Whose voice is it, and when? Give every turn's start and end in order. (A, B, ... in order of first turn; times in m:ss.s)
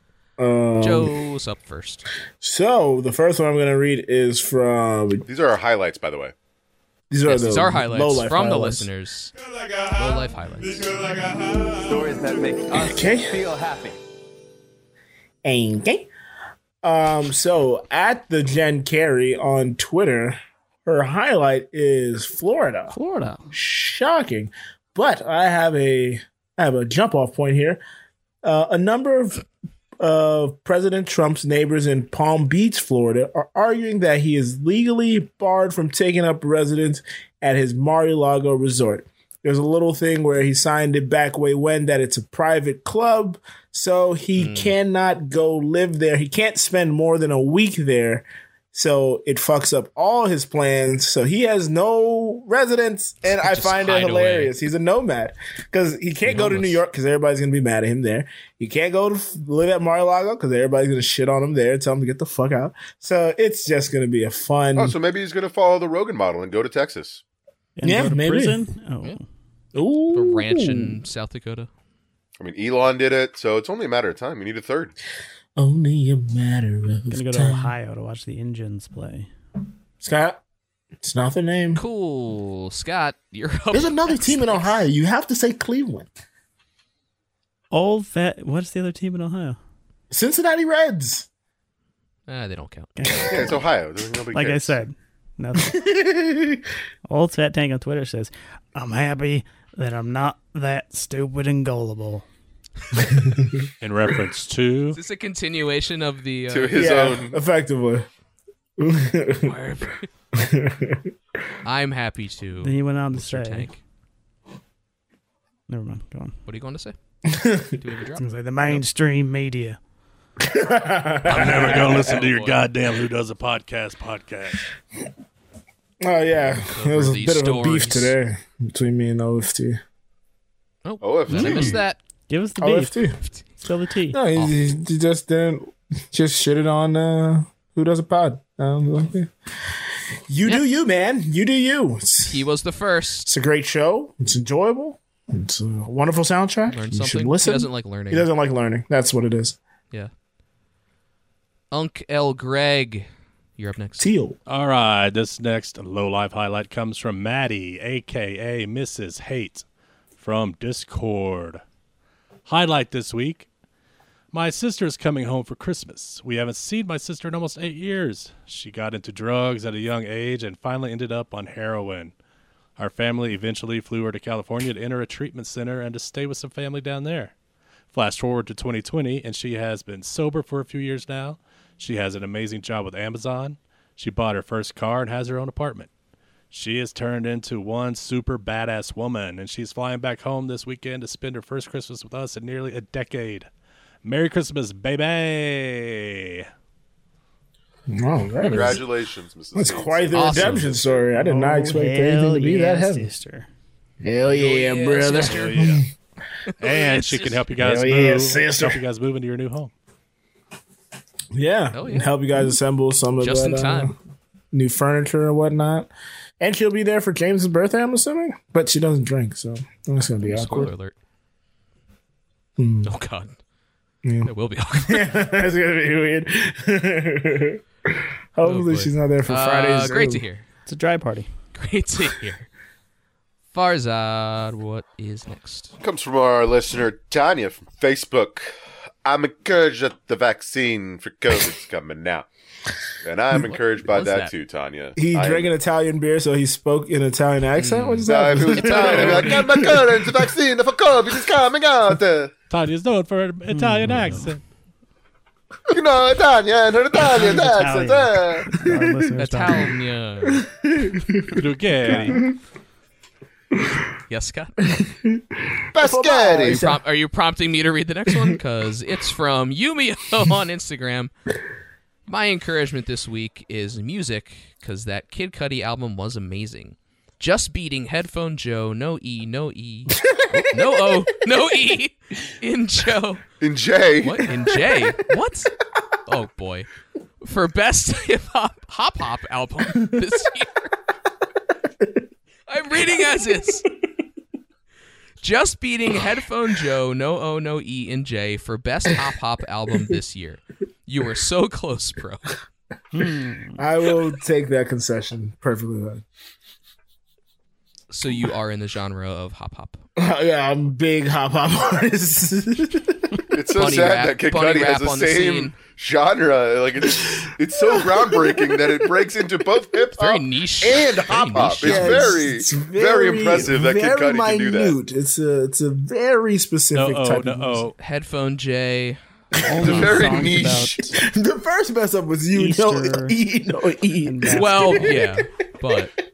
0:00.4-0:01.2 A
0:00.8-0:02.1 B
0:02.4-0:05.2 A
0:05.2-0:06.3 C
0:07.1-0:08.9 A
0:07.2-0:09.3 B
0:09.9-0:11.2 B
0:11.7-0:13.9 D
0:12.7-0:13.3 A
0:15.4-0:16.1 A
0:16.8-0:23.0 A
0:22.9-0:23.5 E
0:23.5-0:27.8 A
0:28.4-0:29.4 A
0:30.0-1:04.9 A
0:44.4-0:44.8 B
0:53.3-0:54.5 B
0:56.2-0:56.8 B
1:04.8-1:07.2 C
1:07.8-1:09.2 E
1:07.8-1:08.6 A
1:09.7-1:11.0 A
1:10.1-1:11.7 B
1:12.4-1:14.9 C
1:15.6-1:17.7 A
1:17.1-1:19.3 E
1:20.0-1:20.4 A
1:21.0-1:21.8 A
1:21.7-1:24.8 B
1:23.7-1:26.1 A
1:27.7-1:29.6 E
1:30.1-1:31.3 A
1:32.3-1:32.9 B
1:33.0-1:33.6 E
1:33.2-1:34.8 C
1:34.3-1:35.9 E
1:35.7-1:36.6 A
1:37.1-1:42.2 E
1:43.1-1:43.7 A
1:43.8-1:45.0 F
1:44.9-1:46.9 B
1:46.5-1:47.4 C
1:46.7-1:48.1 A
1:48.8-1:49.6 A
1:49.4-1:50.1 B
1:50.3-1:51.1 A
1:51.6-1:53.8 B
1:52.6-1:53.7 E
1:55.7-1:56.4 E
1:56.4-1:56.9 B
1:57.3-1:57.8 A
1:57.8-1:58.8 B
1:58.2-1:59.8 E
2:00.4-2:02.1 A
2:01.2-2:04.6 F
2:01.3-2:02.7 B
2:06.0-2:09.8 A
2:06.3-2:08.2 B
2:10.8-2:12.0 B
2:11.0-2:11.8 C
2:11.3-2:11.7 E
2:12.3-2:13.0 E
2:12.6-2:13.2 A
2:13.6-2:14.2 E
2:14.1-2:19.3 A
2:20.3-2:22.4 A
2:22.2-2:23.3 B
2:23.2-2:29.6 A
2:26.7-2:28.3 B
2:31.7-2:34.1 B
2:34.0-2:34.4 A
2:34.5-2:39.6 F
2:40.2-2:41.6 F
2:42.4-2:43.5 F
2:44.3-2:52.1 F
2:52.8-2:57.3 F
2:57.9-3:05.9 F
3:06.5-3:13.5 F
3:14.0-3:16.5 F
3:17.9-3:18.8 A
3:18.4-3:21.1 C
3:19.5-3:23.1 A
3:20.1-3:20.7 B
3:21.1-3:23.5 E
3:24.0-3:25.8 A
3:24.2-3:25.6 B
3:25.0-3:25.8 F
3:26.5-3:27.4 B
3:26.6-3:29.7 F
3:27.6-3:28.8 A
3:31.3-3:34.0 A
3:31.7-3:32.3 B
3:33.2-3:33.9 B
3:34.5-3:40.7 A
3:40.2-3:40.9 B
3:42.6-3:42.9 A
3:42.8-3:43.3 B
3:44.0-3:50.2 A
3:44.2-3:45.1 B
3:48.4-3:50.4 B
3:50.6-3:51.3 E
3:51.5-3:52.5 B
3:53.5-3:55.8 B
3:55.8-3:58.5 C
3:59.0-4:02.3 C
4:03.0-4:05.5 C
4:03.4-4:04.3 B
4:05.0-4:10.2 A
4:07.6-4:09.7 B
4:08.0-4:12.3 C
4:12.5-4:14.4 F
4:13.5-4:14.3 E
4:15.7-4:18.5 C
4:17.1-4:19.8 E
4:18.6-4:19.2 A
4:19.2-4:20.4 B
4:20.2-4:22.3 A
4:21.4-4:22.2 F
4:21.9-4:22.2 E
4:24.1-4:24.5 B
4:24.7-4:26.8 A
4:25.7-4:26.7 C
4:26.4-4:31.1 B
4:28.1-4:28.4 A
4:32.1-4:43.2 B
4:40.0-4:40.8 A
4:43.4-4:44.3 C
4:44.0-4:45.5 B
4:46.0-4:46.7 B
4:47.2-4:50.7 B
4:52.5-4:53.6 B
4:55.2-5:02.3 B
5:02.9-5:03.6 E
5:03.6-5:06.0 A
5:07.9-5:09.8 B
5:10.0-5:13.1 A
5:13.3-5:24.8 C
5:13.5-5:15.6 B
5:17.0-5:18.8 A
5:20.0-5:22.1 B
5:21.6-5:27.6 A
5:26.7-5:27.7 F
5:27.8-5:29.0 B
5:29.4-5:31.0 E
5:29.5-5:29.8 A
5:29.6-5:30.8 C
5:29.6-5:30.4 B
5:30.9-5:35.2 A
5:32.3-5:33.2 E
5:34.0-5:35.0 E
5:34.3-5:35.9 B